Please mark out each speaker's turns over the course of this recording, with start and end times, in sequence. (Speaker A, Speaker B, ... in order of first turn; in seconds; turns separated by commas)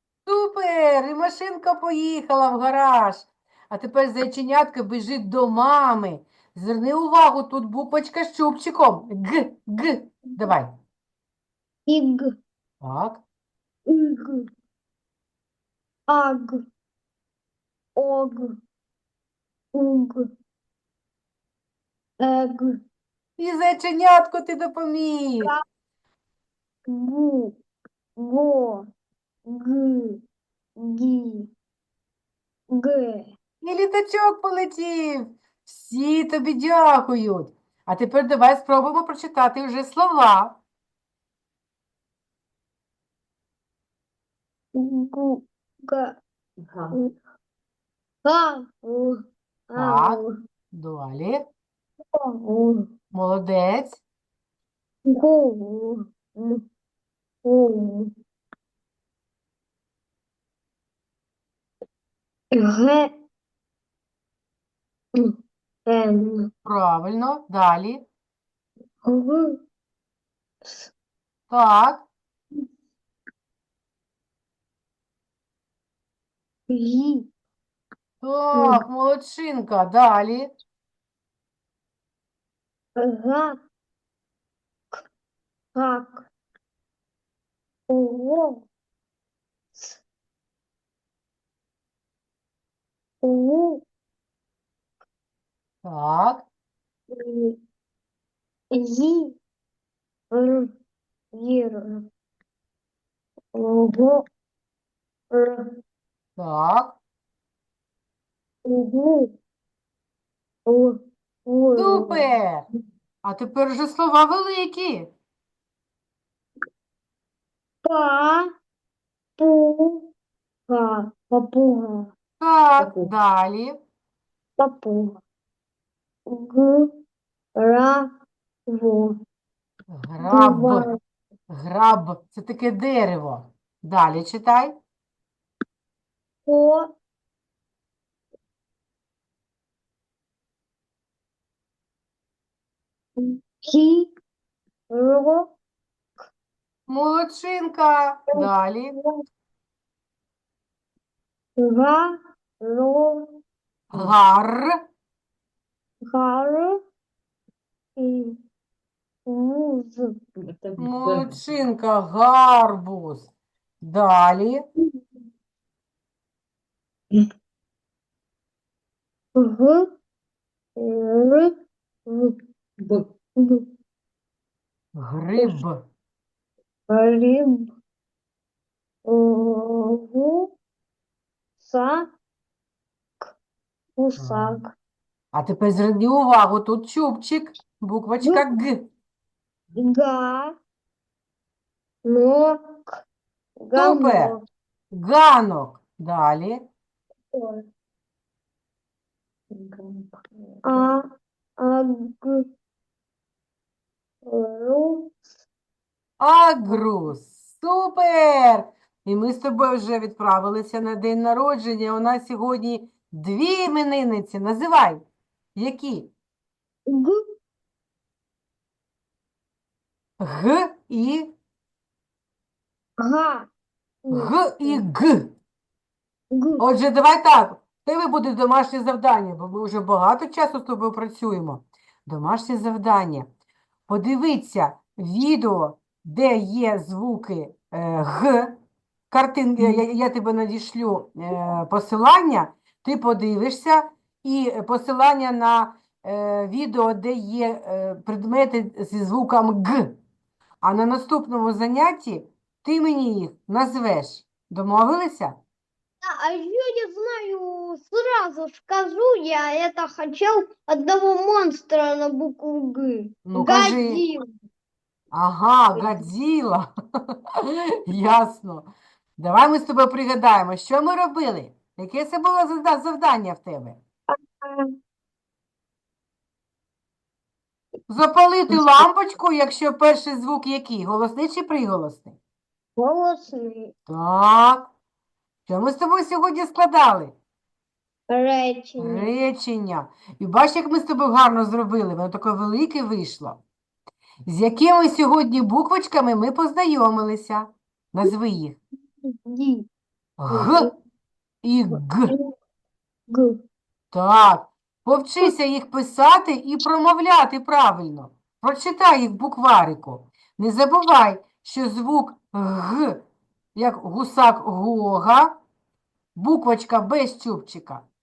Speaker A: 0.2-10.7, Speaker B: 10.3-10.5, Speaker B: 11.9-12.3, Speaker A: 12.8-13.2, Speaker B: 13.9-14.5, Speaker B: 16.1-16.6, Speaker B: 17.9-18.6, Speaker B: 19.7-20.3, Speaker B: 22.2-22.8, Speaker A: 23.4-25.5, Speaker B: 26.9-27.6, Speaker B: 28.2-28.9, Speaker B: 29.4-30.2, Speaker B: 30.8-31.5, Speaker B: 32.7-33.3, Speaker A: 33.6-40.6, Speaker B: 44.7-46.2, Speaker B: 48.2-50.3, Speaker A: 49.8-50.2, Speaker A: 50.7-51.4, Speaker B: 52.1-52.9, Speaker A: 53.1-54.0, Speaker B: 55.1-56.6, Speaker B: 57.4-58.1, Speaker B: 62.5-63.1, Speaker B: 65.9-66.5, Speaker A: 66.6-68.0, Speaker B: 69.0-69.6, Speaker B: 70.6-70.9, Speaker A: 71.5-72.0, Speaker B: 76.7-77.3, Speaker A: 78.2-80.5, Speaker B: 78.5-78.8, Speaker B: 83.0-83.6, Speaker B: 85.7-86.3, Speaker B: 87.9-88.7, Speaker B: 89.7-90.0, Speaker B: 93.2-93.8, Speaker A: 95.8-96.4, Speaker B: 97.1-97.6, Speaker B: 98.7-99.4, Speaker B: 100.3-100.7, Speaker B: 101.3-102.0, Speaker B: 103.5-104.2, Speaker B: 105.3-105.8, Speaker A: 106.4-107.0, Speaker B: 108.6-109.3, Speaker B: 110.7-112.3, Speaker A: 111.8-112.7, Speaker A: 113.2-115.1, Speaker B: 117.8-118.5, Speaker B: 119.4-120.1, Speaker B: 120.7-122.1, Speaker A: 122.4-123.8, Speaker C: 122.8-123.1, Speaker B: 124.6-125.2, Speaker B: 126.3-127.0, Speaker B: 127.5-128.1, Speaker B: 128.7-129.2, Speaker A: 129.9-130.9, Speaker B: 130.2-130.9, Speaker A: 131.5-134.8, Speaker B: 136.4-136.9, Speaker B: 143.2-144.1, Speaker B: 144.9-145.5, Speaker A: 146.9-148.9, Speaker B: 148.3-149.2, Speaker B: 151.6-153.4, Speaker A: 153.9-154.7, Speaker B: 156.0-156.8, Speaker B: 158.0-158.4, Speaker B: 159.3-160.2, Speaker C: 160.4-161.4, Speaker A: 160.8-163.3, Speaker A: 163.8-164.7, Speaker B: 169.3-169.9, Speaker B: 170.8-171.5, Speaker B: 172.1-172.3, Speaker C: 172.8-173.1, Speaker B: 173.4-173.7, Speaker A: 174.9-175.8, Speaker B: 176.9-177.7, Speaker B: 179.1-180.5, Speaker B: 181.6-182.1, Speaker B: 184.0-184.7, Speaker A: 184.2-184.6, Speaker A: 185.3-188.9, Speaker B: 188.2-188.6, Speaker B: 189.8-190.6, Speaker B: 192.0-193.0, Speaker B: 193.6-194.4, Speaker A: 193.8-194.3, Speaker A: 194.9-196.6, Speaker B: 197.3-197.7, Speaker C: 199.5-200.9, Speaker B: 200.6-201.1, Speaker B: 201.6-202.4, Speaker B: 204.2-205.2, Speaker A: 206.2-215.0, Speaker A: 215.6-216.1, Speaker B: 216.9-217.2, Speaker A: 220.2-221.3, Speaker B: 223.0-223.5, Speaker B: 224.1-224.8, Speaker A: 224.1-225.3, Speaker B: 226.3-226.6, Speaker A: 226.6-233.3, Speaker A: 233.9-238.6, Speaker A: 239.1-250.0, Speaker A: 250.6-255.4, Speaker B: 256.0-264.2, Speaker A: 263.2-264.0, Speaker A: 265.1-267.1, Speaker B: 265.7-266.1, Speaker A: 267.9-273.8, Speaker B: 274.1-274.7, Speaker A: 277.9-282.2, Speaker B: 278.5-278.8, Speaker B: 282.8-283.7, Speaker A: 283.9-284.7, Speaker A: 285.5-287.1, Speaker B: 288.1-289.1, Speaker A: 288.8-293.4, Speaker A: 294.2-298.6, Speaker B: 299.0-299.7, Speaker A: 300.2-300.7, Speaker B: 300.3-300.7, Speaker A: 301.4-302.1, Speaker B: 301.7-302.3, Speaker B: 303.1-303.4, Speaker A: 303.9-313.0, Speaker A: 313.5-315.3, Speaker A: 316.1-317.9